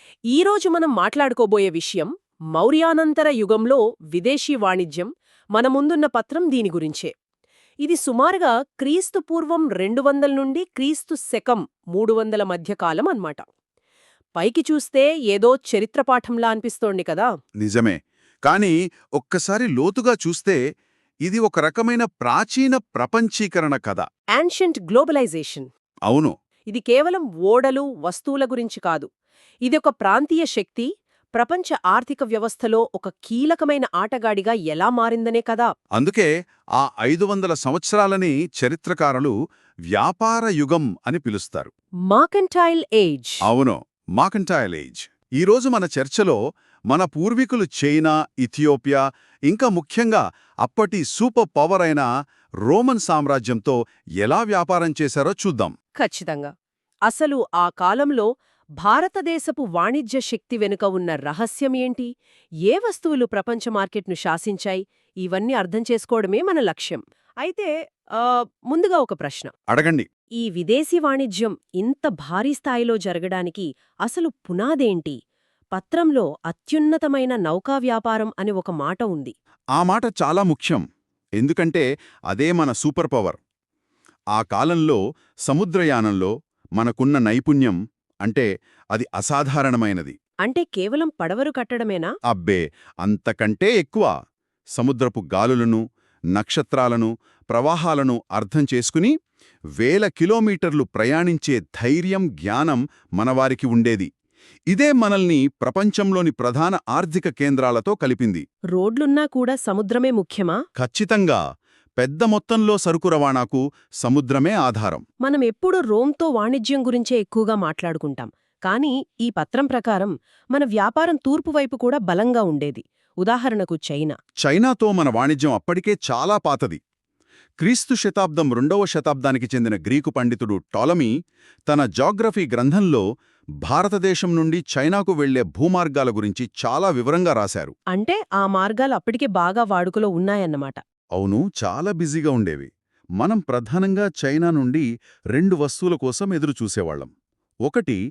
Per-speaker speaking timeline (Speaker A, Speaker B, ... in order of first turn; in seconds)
Speaker A: 0.3-7.1, 7.8-13.5, 14.4-17.3, 24.4-25.7, 26.7-29.1, 29.6-35.7, 42.1-43.4, 56.0-56.5, 57.1-58.3, 58.8-62.1, 62.7-69.5, 70.4-75.2, 75.8-79.3, 90.5-92.1, 108.8-110.6, 115.2-124.1, 137.9-140.8
Speaker B: 17.6-20.6, 21.2-24.1, 26.1-26.3, 36.0-39.4, 39.9-41.7, 43.5-46.4, 46.9-52.1, 52.7-55.7, 69.7-70.1, 79.8-80.8, 81.4-83.4, 84.3-90.2, 92.3-94.1, 94.8-95.8, 96.4-99.1, 99.8-104.1, 104.7-108.5, 110.8-111.4, 112.0-115.0, 124.4-126.8, 127.6-131.1, 131.7-133.0, 133.6-137.8, 141.2-147.1, 147.7-148.0